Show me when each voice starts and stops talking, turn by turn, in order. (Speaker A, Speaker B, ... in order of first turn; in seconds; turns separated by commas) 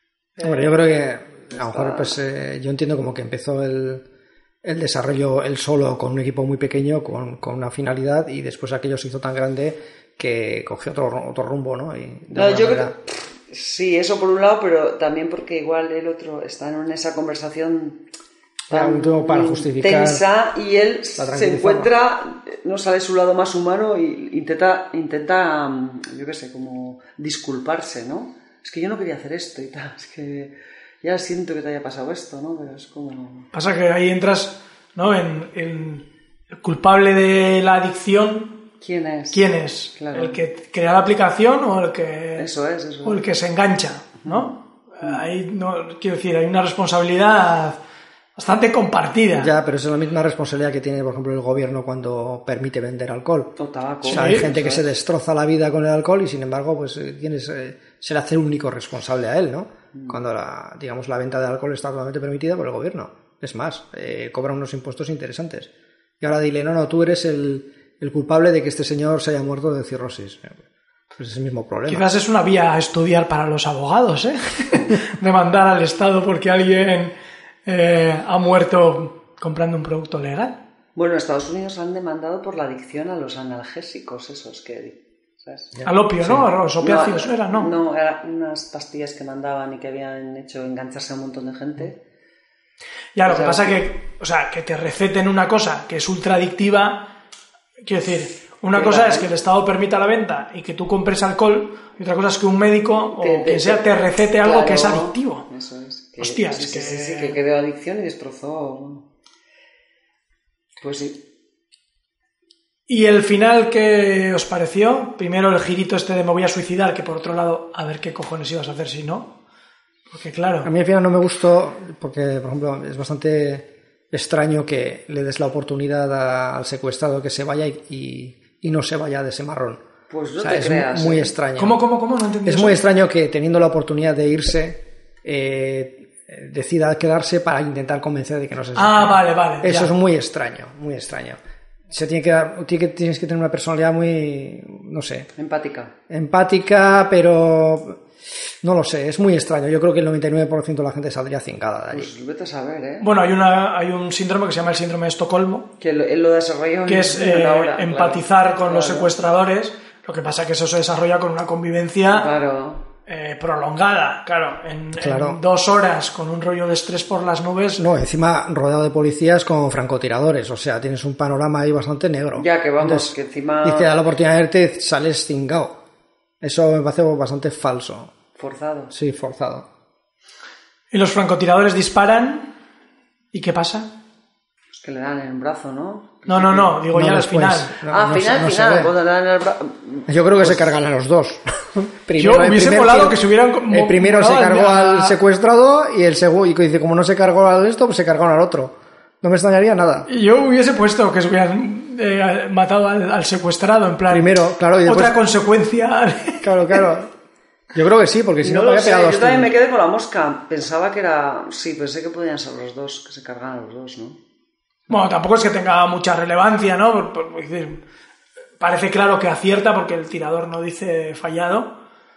Speaker A: 0.4-4.0, Speaker B: 1.5-2.1, Speaker A: 4.6-12.9, Speaker B: 12.3-18.0, Speaker A: 18.7-20.2, Speaker B: 18.7-33.5, Speaker A: 21.2-21.9, Speaker C: 33.5-36.0, Speaker C: 36.6-38.6, Speaker B: 38.8-39.4, Speaker C: 39.3-42.5, Speaker B: 40.0-40.4, Speaker B: 42.4-43.2, Speaker C: 43.0-47.8, Speaker B: 44.2-44.5, Speaker C: 48.4-49.5, Speaker A: 49.3-53.5, Speaker B: 53.6-54.8, Speaker C: 54.0-54.5, Speaker A: 54.1-70.6, Speaker A: 71.2-72.0, Speaker C: 71.9-77.1, Speaker C: 77.7-80.6, Speaker B: 80.9-85.7, Speaker A: 85.8-86.5, Speaker C: 85.8-87.7, Speaker B: 86.8-92.0, Speaker C: 93.1-97.1, Speaker B: 93.2-93.8, Speaker C: 97.8-105.5, Speaker B: 98.7-99.3, Speaker B: 103.1-103.9, Speaker B: 104.4-109.0, Speaker C: 106.2-107.4, Speaker B: 110.8-111.2, Speaker C: 112.9-119.3, Speaker C: 120.1-120.7, Speaker A: 120.6-129.8, Speaker B: 130.1-131.3, Speaker A: 130.4-131.8, Speaker C: 131.6-132.8, Speaker A: 132.4-141.4, Speaker C: 138.8-139.9, Speaker A: 141.9-145.3, Speaker B: 145.4-145.9, Speaker A: 146.1-148.0, Speaker A: 148.6-152.1, Speaker B: 151.9-153.1, Speaker C: 153.0-155.7, Speaker B: 155.8-159.1, Speaker C: 156.9-162.3, Speaker B: 162.1-162.8, Speaker C: 163.1-167.8, Speaker A: 165.0-165.4, Speaker A: 167.8-175.8, Speaker B: 172.3-173.9, Speaker A: 176.4-178.1, Speaker B: 178.4-178.9, Speaker A: 178.9-179.7, Speaker C: 180.9-182.5, Speaker C: 183.3-183.9, Speaker B: 184.7-186.8, Speaker C: 186.3-187.7, Speaker A: 186.9-188.9, Speaker B: 187.8-190.6, Speaker A: 190.1-200.1, Speaker C: 192.2-195.2, Speaker C: 200.1-206.8, Speaker A: 204.1-205.2, Speaker A: 206.4-207.1, Speaker A: 207.7-209.5, Speaker B: 208.4-214.2, Speaker C: 214.9-217.8, Speaker C: 218.6-221.7